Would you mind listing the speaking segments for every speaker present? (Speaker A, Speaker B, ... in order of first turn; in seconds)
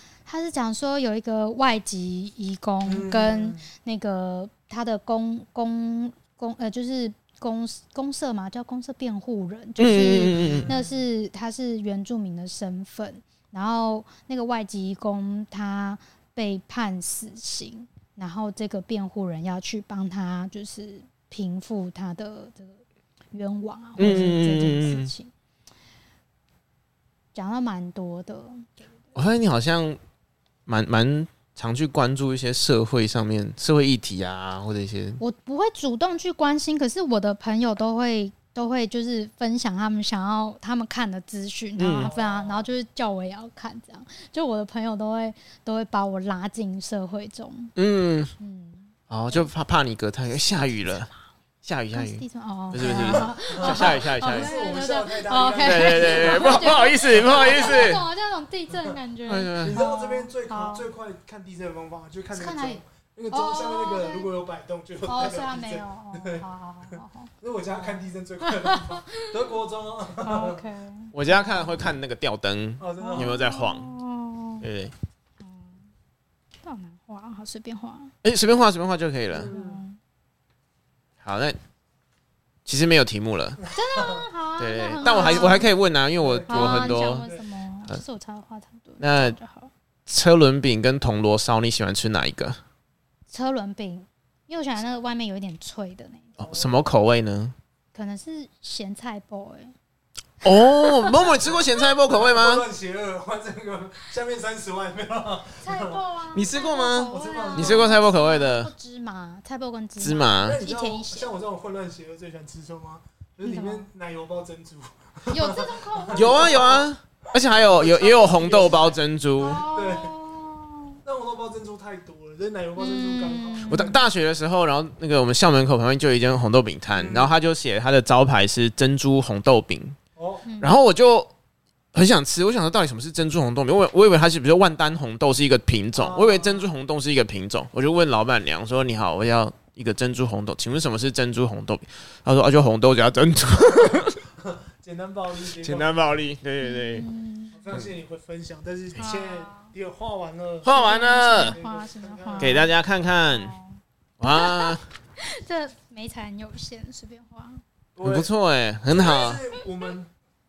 Speaker A: 0.2-25.3, 27.3-29.1, 35.2-47.8, 48.4-49.5, 51.9-60.9, 62.3-64.3, 65.0-69.4, 70.2-71.8, 73.0-74.7, 75.4-75.8, 76.6-78.1, 79.5-80.0, 83.7-85.7, 86.5-89.7, 93.3-96.4, 97.9-99.7, 100.5-101.5, 105.6-111.3, 113.4-113.9, 115.3-116.8, 119.4-121.0, 122.8-124.0, 130.5-130.8, 146.6-147.7, 148.9-149.7, 150.7-157.6
Speaker B: 2.8-3.6, 10.4-10.9, 42.0-42.7, 52.8-58.0, 58.7-59.0, 59.6-70.6, 72.8-73.4, 79.3-79.8, 85.0-85.7, 86.2-87.4, 96.4-96.9, 102.1-106.0, 107.1-107.9, 110.4-116.9, 117.5-119.0, 119.5-120.2, 121.0-124.0, 126.9-127.3, 130.2-130.5, 135.9-136.7, 144.0-146.2, 147.5-150.8, 151.3-152.7, 158.0-158.3, 158.9-160.1
Speaker C: 9.8-10.7, 24.0-25.1, 29.1-30.0, 30.7-35.2, 41.8-42.1, 47.8-48.3, 49.1-51.1, 51.6-54.5, 55.6-58.0, 59.3-59.8, 71.1-73.9, 74.6-74.9, 78.2-79.5, 81.2-81.6, 82.7-83.6, 84.6-87.3, 89.0-89.4, 90.1-92.6, 96.4-97.5, 100.4-102.7, 106.3-108.7, 110.0-110.6, 116.1-119.7, 123.7-130.0, 130.6-131.3, 131.9-144.2, 145.6-147.1, 150.6-151.6, 152.4-153.5, 154.2-154.8, 158.0-159.4